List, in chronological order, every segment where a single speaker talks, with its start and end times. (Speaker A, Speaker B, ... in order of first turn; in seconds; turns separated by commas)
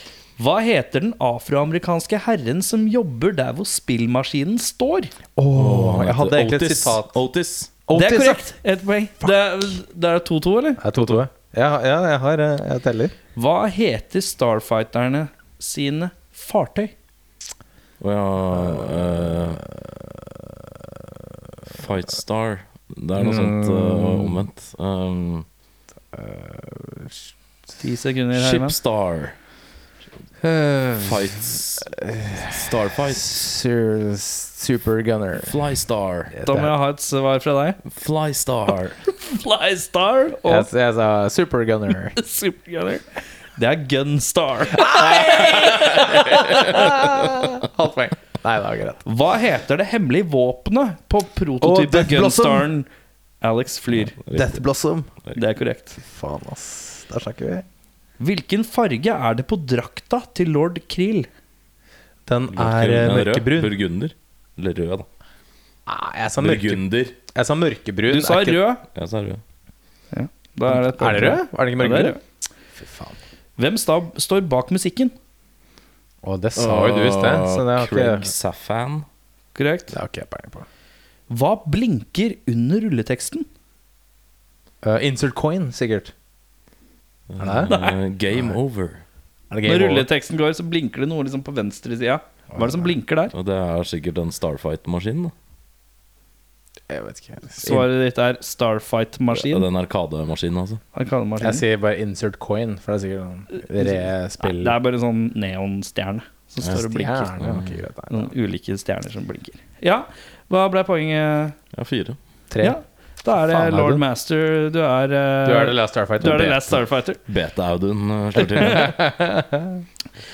Speaker A: 0.4-5.1, Speaker B: 5.4-7.2, Speaker C: 5.5-7.7, Speaker B: 7.9-8.4, Speaker A: 7.9-10.8, Speaker B: 10.8-13.1, Speaker A: 13.4-16.9, Speaker C: 18.0-19.6, Speaker B: 18.6-20.0, Speaker C: 21.7-25.5, Speaker B: 23.2-24.4, Speaker B: 26.1-27.2, Speaker A: 27.8-28.8, Speaker C: 28.3-29.4, Speaker B: 30.4-35.5, Speaker C: 31.0-31.9, Speaker C: 32.5-33.3, Speaker C: 35.4-36.3, Speaker B: 36.3-36.7, Speaker A: 36.5-37.8, Speaker C: 37.8-39.0, Speaker A: 39.0-40.7, Speaker B: 40.5-42.2, Speaker A: 42.2-47.1, Speaker B: 44.7-49.0, Speaker A: 49.0-52.9, Speaker B: 51.6-52.7, Speaker A: 53.4-54.2, Speaker C: 54.0-54.6, Speaker B: 54.3-55.1, Speaker A: 55.3-56.0, Speaker B: 56.0-57.6, Speaker A: 58.2-61.3, Speaker B: 62.3-63.8, Speaker C: 62.5-65.1, Speaker B: 65.9-68.6, Speaker C: 66.4-67.2, Speaker A: 68.1-68.8, Speaker C: 68.9-69.4, Speaker A: 70.1-72.2, Speaker B: 70.7-72.2, Speaker B: 72.8-73.2, Speaker A: 73.6-75.1, Speaker B: 76.2-78.3, Speaker C: 76.5-79.0, Speaker A: 79.5-79.9, Speaker B: 79.9-80.7, Speaker A: 81.3-83.5, Speaker B: 84.8-86.1, Speaker C: 87.3-89.0, Speaker B: 87.4-87.7, Speaker A: 87.7-88.0, Speaker B: 89.5-90.1, Speaker A: 89.7-93.3, Speaker B: 92.5-92.9, Speaker C: 93.3-95.3, Speaker B: 96.9-97.8, Speaker A: 97.6-99.7, Speaker C: 99.3-100.8, Speaker A: 101.0-101.6, Speaker B: 101.4-104.8, Speaker A: 103.8-107.4, Speaker B: 106.7-108.3, Speaker C: 107.4-107.8, Speaker A: 108.1-111.5, Speaker C: 111.7-112.2, Speaker B: 112.5-112.8, Speaker A: 112.6-117.2, Speaker B: 113.4-114.0, Speaker B: 115.5-116.7, Speaker C: 117.3-119.0, Speaker A: 118.4-118.9, Speaker B: 118.6-119.8